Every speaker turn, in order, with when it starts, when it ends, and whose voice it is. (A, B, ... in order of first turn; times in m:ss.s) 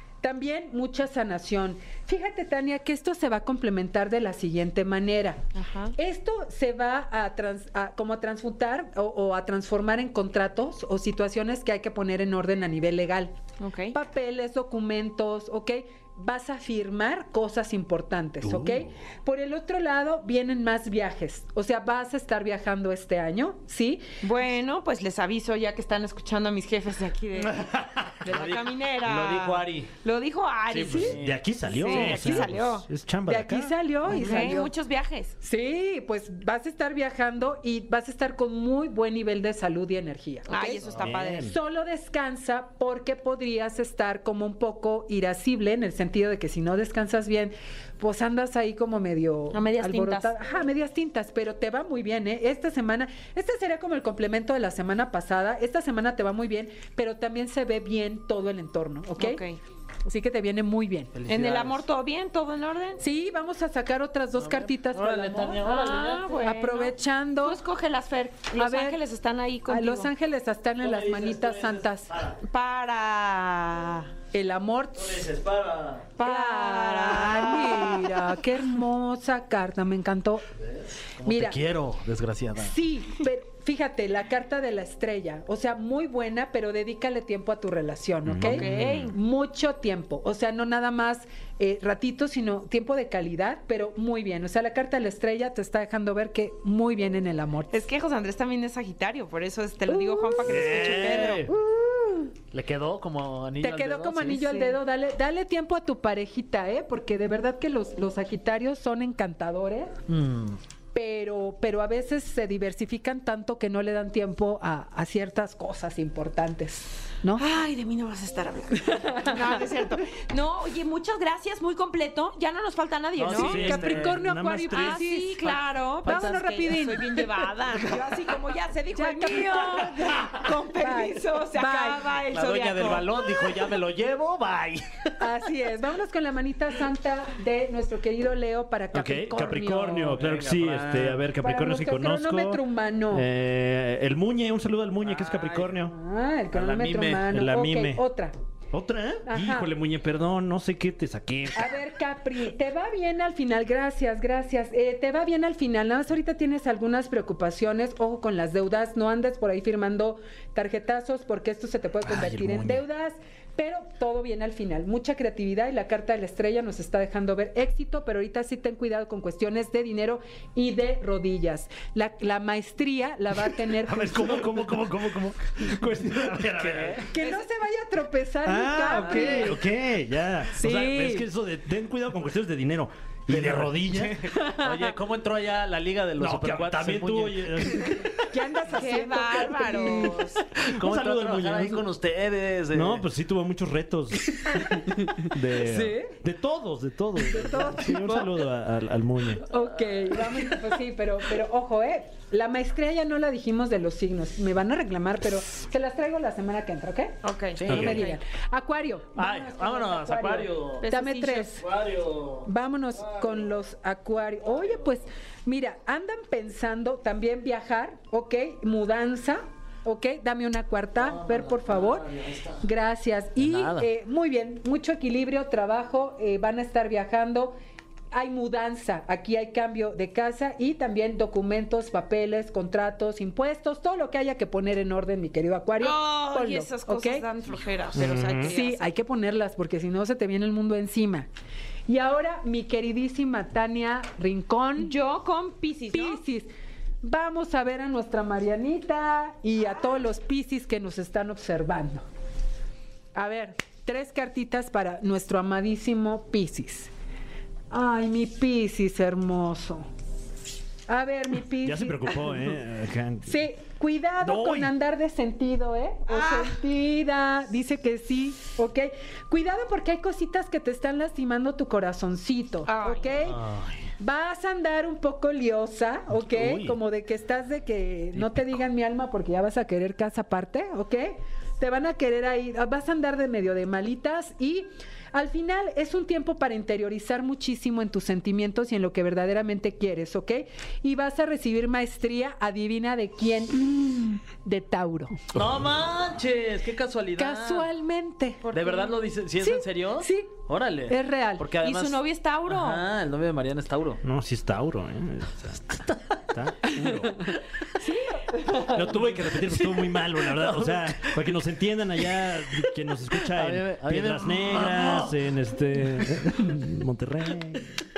0:00.2-0:05.4 A
0:05.6-0:05.9 B
0:06.0-0:13.4 A
0:13.6-0:14.0 B
0:13.9-0:24.0 A
0:18.5-0:18.8 C
0:24.2-0:27.7 B
0:27.4-0:29.9 D
0:28.2-0:31.2 B
0:30.7-0:32.5 D
0:30.9-0:33.8 C
0:31.7-0:32.9 B
0:33.3-0:34.7 A
0:34.1-0:35.3 B
0:35.4-0:59.4 A
0:40.5-0:41.5 B
0:40.9-0:41.6 C
0:49.5-0:50.3 B
0:59.2-0:59.6 B
1:00.1-1:01.1 A
1:01.1-1:01.8 D
1:01.3-1:03.0 B
1:03.0-1:05.6 A
1:04.4-1:06.3 D
1:05.6-1:10.1 B
1:06.3-1:07.6 A
1:08.6-1:09.0 A
1:09.7-1:12.1 A
1:10.8-1:12.4 D
1:12.4-1:14.1 B
1:14.3-1:15.2 A
1:15.0-1:16.2 D
1:16.2-1:18.2 B
1:16.2-1:20.5 A
1:21.2-1:22.8 D
1:21.2-1:21.6 A
1:22.6-1:37.7 A
1:28.3-1:29.1 C
1:28.4-1:29.1 B
1:28.5-1:29.1 D
1:37.7-1:41.5 B
1:39.9-1:42.3 A
1:40.4-1:41.5 D
1:40.8-1:41.5 C
1:42.5-1:44.5 D
1:43.6-1:50.0 A
1:44.5-1:44.8 B
1:50.1-1:50.6 D
1:50.9-1:57.4 A
1:57.4-2:03.8 B
1:58.8-1:59.4 A
2:03.2-2:04.1 D
2:03.3-2:05.1 C
2:03.4-2:08.0 A
2:04.7-2:13.5 B
2:08.9-2:12.2 A
2:12.2-2:15.3 D
2:15.2-2:20.2 A
2:18.9-2:25.9 C
2:20.1-2:21.2 D
2:21.4-2:23.3 A
2:25.0-2:25.8 D
2:25.9-2:28.3 A
2:26.5-2:27.2 D
2:27.3-2:28.0 C
2:28.7-2:31.8 C
2:29.3-2:29.7 A
2:31.5-2:54.7 A
2:42.1-2:42.8 C
2:53.8-2:57.1 C
2:56.6-2:57.1 D
2:57.1-2:59.7 A
2:57.2-2:57.5 B
2:58.5-3:04.3 C
2:59.0-2:59.4 D
3:00.6-3:01.3 A
3:03.3-3:07.8 D
3:04.4-3:04.9 A
3:06.2-3:08.2 C
3:08.3-3:10.4 A
3:08.7-3:10.5 B
3:10.6-3:11.9 C
3:10.7-3:13.1 D
3:12.7-3:19.5 C
3:14.5-3:15.0 A
3:15.6-3:16.2 A
3:17.3-3:18.4 A
3:19.4-3:27.2 A
3:27.2-3:28.2 B
3:27.6-3:28.0 D
3:27.7-3:28.0 C
3:27.7-3:31.7 A
3:29.2-3:30.8 D
3:30.8-3:31.5 B
3:31.6-3:32.5 D
3:32.4-3:42.1 A
3:33.0-3:33.5 D
3:41.0-3:42.7 D
3:42.6-3:47.6 A
3:43.4-3:43.9 D
3:48.1-3:57.3 A
3:55.8-3:58.9 B
3:57.9-3:58.5 C
3:58.4-4:01.3 A
4:01.9-4:04.9 A
4:04.8-4:06.2 B
4:05.9-4:06.5 A
4:07.0-4:12.0 A
4:13.2-4:16.9 A
4:17.7-4:19.9 A
4:20.9-4:22.6 A
4:21.6-4:23.5 C
4:23.2-4:33.4 A
4:24.2-4:24.7 C
4:26.1-4:26.6 B
4:32.7-4:33.2 B
4:33.2-4:33.8 D
4:34.0-4:55.2 A
4:36.1-4:36.8 C
4:55.3-4:57.7 D
4:57.2-4:58.4 A
4:58.4-4:59.0 B
4:58.5-5:04.0 D
4:59.4-5:01.5 A
5:01.6-5:02.8 B
5:04.0-5:05.8 C
5:05.7-5:06.2 D
5:06.3-5:07.3 C
5:07.8-5:08.9 A
5:08.5-5:17.7 C
5:10.2-5:11.1 D
5:13.2-5:15.2 D